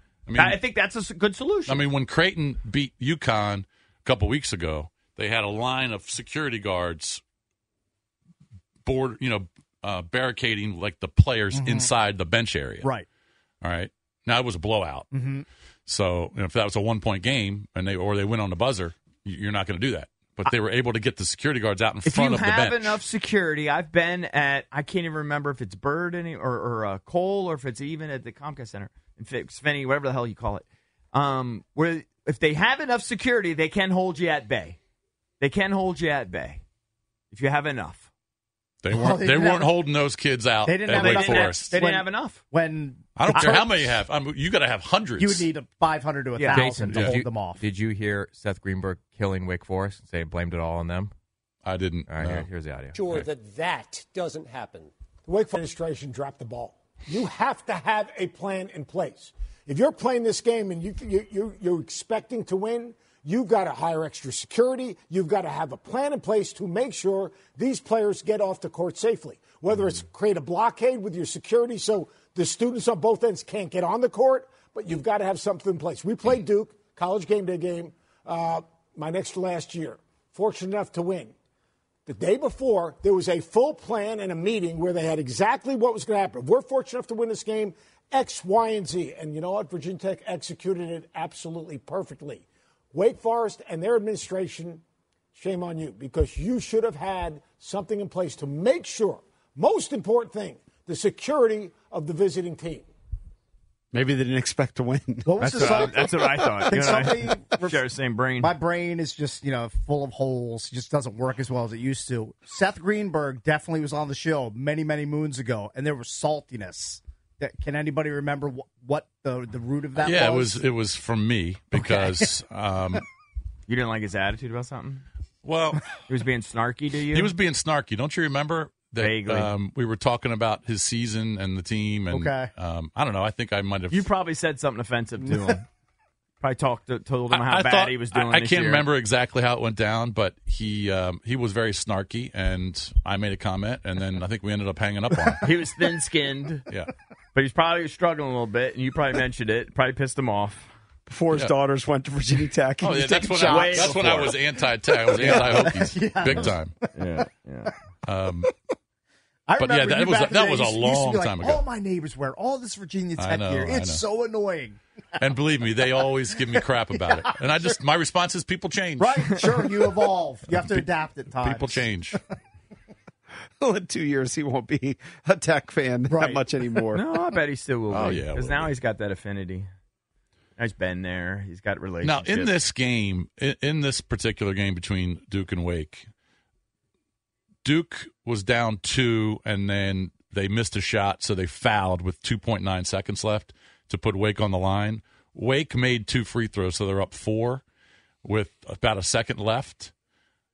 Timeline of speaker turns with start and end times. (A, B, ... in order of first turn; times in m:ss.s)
0:00.3-0:00.6 A
0:00.3-0:01.8 B
0:01.7-0:07.2 A
0:08.8-0:12.9 A
0:11.5-0:11.9 C
0:13.6-0:15.1 A
0:15.1-0:15.4 C
0:15.9-0:22.9 A
0:22.0-0:34.8 B
0:35.4-0:36.6 B
0:37.3-0:38.1 B
0:38.8-0:41.7 A
0:38.9-0:39.9 C
0:40.6-0:44.0 C
0:40.9-0:42.4 B
0:43.2-0:45.5 A
0:43.3-0:43.6 B
0:45.2-0:47.6 C
0:46.4-0:46.8 B
0:46.5-0:51.1 D
0:46.9-0:47.2 A
0:51.6-0:52.5 A
0:52.1-0:53.0 D
0:52.9-1:21.3 E
1:22.1-1:32.4 E
1:32.9-1:34.8 E
1:35.4-1:42.8 E
1:43.9-1:46.1 F
1:45.2-2:00.6 C
1:45.4-1:48.5 B
2:00.0-2:03.0 A
2:01.7-2:02.2 C
2:03.7-2:05.0 B
2:05.4-2:05.8 A
2:06.1-2:07.3 B
2:07.1-2:14.1 A
2:09.0-2:09.5 B
2:12.1-2:12.5 C
2:13.9-2:15.6 B
2:16.4-2:18.9 B
2:17.3-2:25.4 A
2:25.4-2:26.6 B
2:27.3-2:30.7 B
2:31.1-2:34.4 F
2:32.8-2:36.7 A
2:33.4-2:34.3 B
2:34.9-2:37.0 C
2:36.9-2:37.7 B
2:38.0-2:38.5 A
2:39.5-2:44.8 C
2:39.6-2:41.6 A
2:43.2-2:44.0 A
2:45.2-2:49.4 A
2:46.5-2:47.6 C
2:49.0-2:52.2 C
2:50.5-2:52.2 A
2:53.6-2:57.0 F
2:56.1-2:56.5 C
2:56.9-2:59.7 B
2:57.9-2:58.7 A
3:00.6-3:02.6 B
3:02.0-3:06.1 A
3:07.6-3:17.6 A
3:18.2-3:19.9 A